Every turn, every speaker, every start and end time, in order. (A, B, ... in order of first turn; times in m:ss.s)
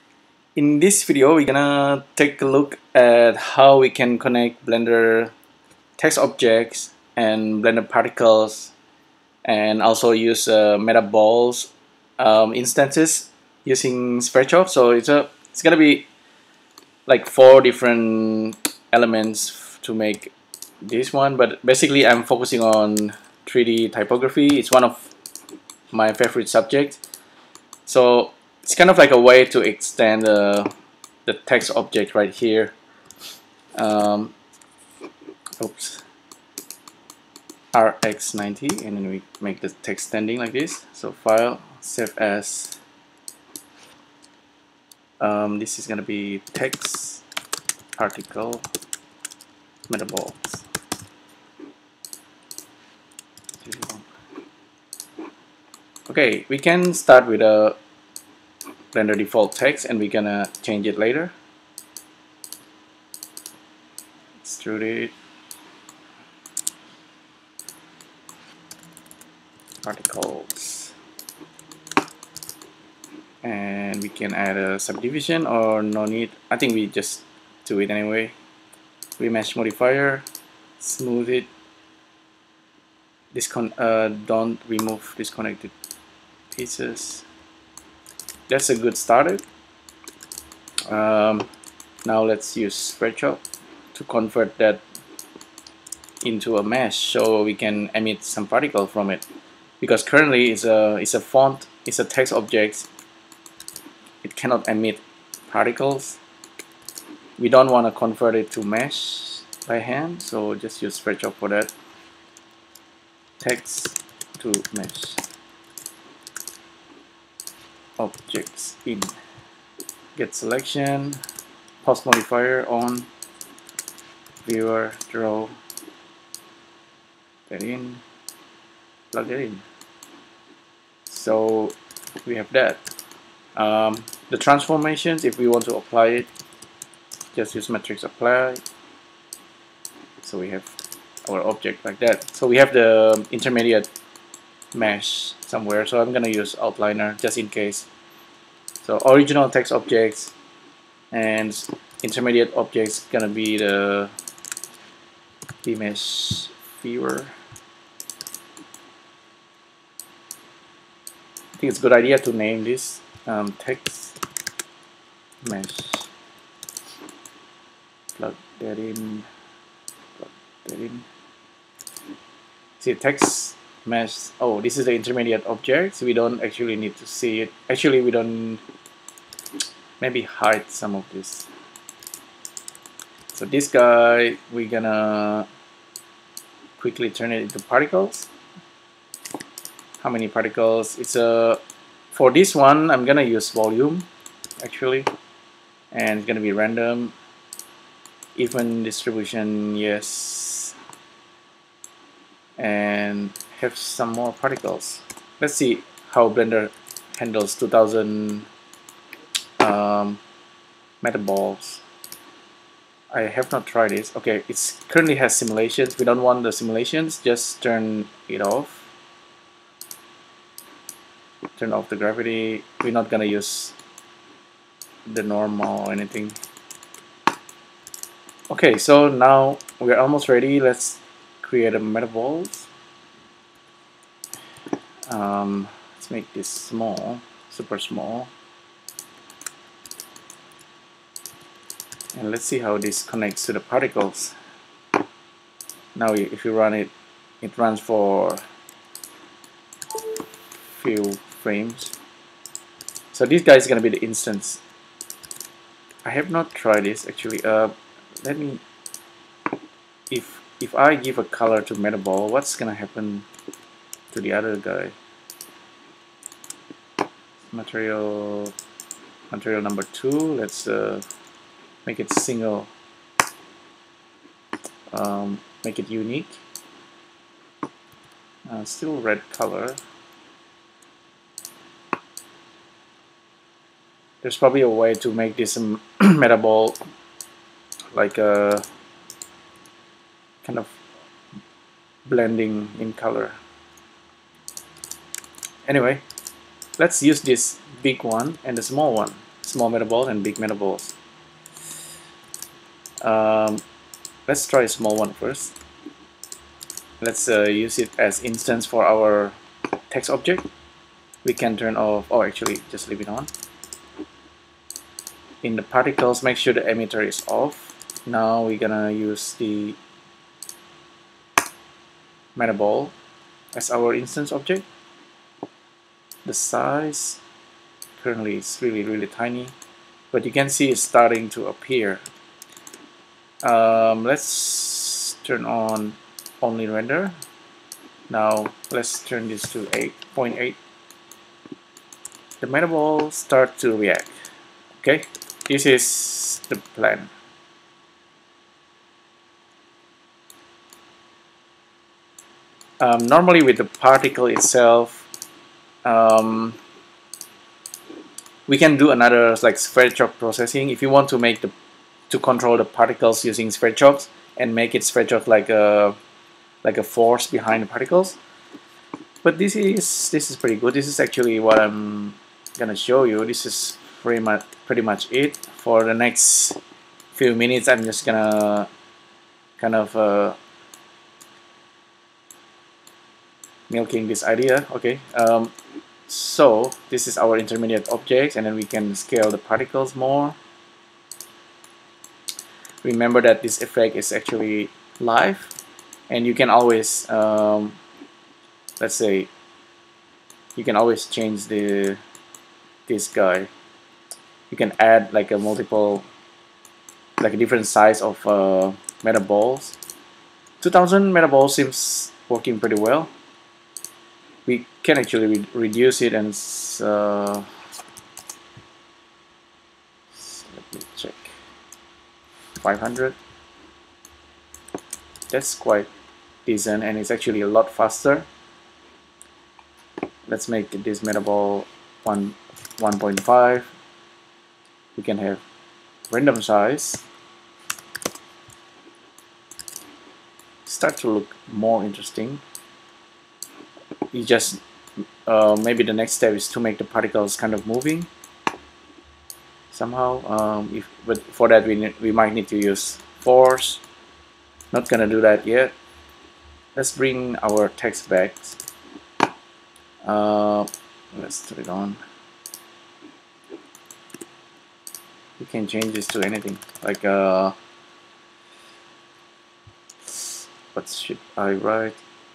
0:00.6-0:05.3 A
0:06.0-0:08.7 A
0:09.4-0:16.0 A
0:17.1-0:25.1 A
0:25.9-0:27.0 A
0:27.8-0:30.7 A
0:31.2-0:32.7 A
0:33.7-0:34.3 A
0:35.6-0:36.0 A
0:37.7-0:42.8 A
0:45.2-0:47.2 A
0:48.0-0:48.6 A
0:49.9-0:50.7 A
0:53.6-0:54.1 A
0:56.1-0:57.8 A
0:58.9-1:01.3 A
1:04.4-1:05.1 A
1:09.8-1:10.9 A
1:13.4-1:18.3 A
1:19.2-1:20.2 A
1:20.8-1:21.5 A
1:23.3-1:25.7 A
1:26.5-1:27.2 A
1:28.5-1:29.4 A
1:30.9-1:31.5 A
1:32.0-1:33.4 A
1:33.9-1:34.8 A
1:36.2-1:39.2 A
1:39.8-1:42.9 A
1:44.2-1:46.2 A
1:47.4-1:51.7 A
1:53.4-1:55.2 A
1:58.0-1:59.1 A
2:00.2-2:01.2 A
2:01.8-2:03.1 A
2:04.4-2:05.5 A
2:07.5-2:08.0 A
2:09.1-2:09.6 A
2:11.1-2:12.9 A
2:13.6-2:16.3 A
2:17.3-2:18.6 A
2:20.2-2:23.9 A
2:24.7-2:27.9 A
2:28.8-2:30.3 A
2:31.1-2:34.1 A
2:35.6-2:37.3 A
2:41.6-2:44.2 A
2:45.4-2:46.1 A
2:48.2-2:49.3 A
2:50.2-2:51.0 A
2:52.8-2:58.6 A
3:00.0-3:01.5 A
3:03.3-3:05.5 A
3:06.8-3:08.3 A
3:10.0-3:11.6 A
3:12.1-3:14.1 A
3:14.6-3:15.1 A
3:15.9-3:17.1 A
3:18.4-3:20.8 A
3:22.6-3:28.5 A
3:29.6-3:30.2 A
3:31.0-3:31.8 A
3:33.1-3:38.9 A
3:41.6-3:43.7 A
3:45.1-3:46.4 A
3:48.5-3:52.7 A
3:55.1-3:58.3 A
4:02.1-4:04.4 A
4:05.9-4:08.4 A
4:10.6-4:11.9 A
4:13.1-4:14.6 A
4:16.0-4:18.6 A
4:20.1-4:23.2 A
4:24.1-4:24.9 A
4:27.5-4:28.5 A
4:29.3-4:31.0 A
4:31.8-4:32.7 A
4:34.9-4:36.4 A
4:38.5-4:39.8 A
4:44.2-4:46.8 A
4:47.9-4:48.6 A
4:50.4-4:50.8 A
4:52.0-4:53.4 A
4:55.7-4:56.0 A
4:56.8-5:00.9 A
5:03.0-5:03.6 A
5:04.3-5:05.5 A
5:07.0-5:09.4 A
5:09.9-5:10.5 A
5:11.2-5:13.3 A
5:15.4-5:19.8 A
5:22.4-5:22.9 A
5:23.5-5:24.6 A
5:26.2-5:27.2 A
5:28.0-5:29.5 A
5:30.1-5:32.0 A
5:33.4-5:37.1 A
5:38.1-5:40.6 A
5:42.4-5:44.1 A
5:44.8-5:47.1 A
5:52.8-5:55.1 A
5:55.8-5:56.6 A
5:58.5-6:01.5 A
6:02.1-6:06.0 A
6:06.6-6:08.2 A
6:09.2-6:16.6 A
6:17.1-6:18.7 A
6:19.6-6:20.4 A
6:23.7-6:25.5 A
6:26.1-6:30.4 A
6:32.8-6:35.6 A
6:36.1-6:37.8 A
6:38.8-6:39.3 A
6:40.6-6:42.0 A
6:42.9-6:43.5 A
6:44.5-6:46.0 A
6:47.2-6:49.8 A
6:50.6-6:53.1 A
6:54.4-6:57.5 A
7:00.1-7:01.3 A
7:02.6-7:03.2 A
7:05.3-7:05.9 A
7:06.4-7:08.3 A
7:10.2-7:13.7 A
7:14.9-7:15.4 A
7:16.1-7:17.0 A
7:20.6-7:22.4 A
7:24.1-7:24.6 A
7:25.2-7:28.1 A
7:29.7-7:33.8 A
7:34.7-7:35.7 A
7:36.7-7:38.6 A
7:40.0-7:42.0 A
7:45.4-7:47.5 A
7:50.0-7:52.0 A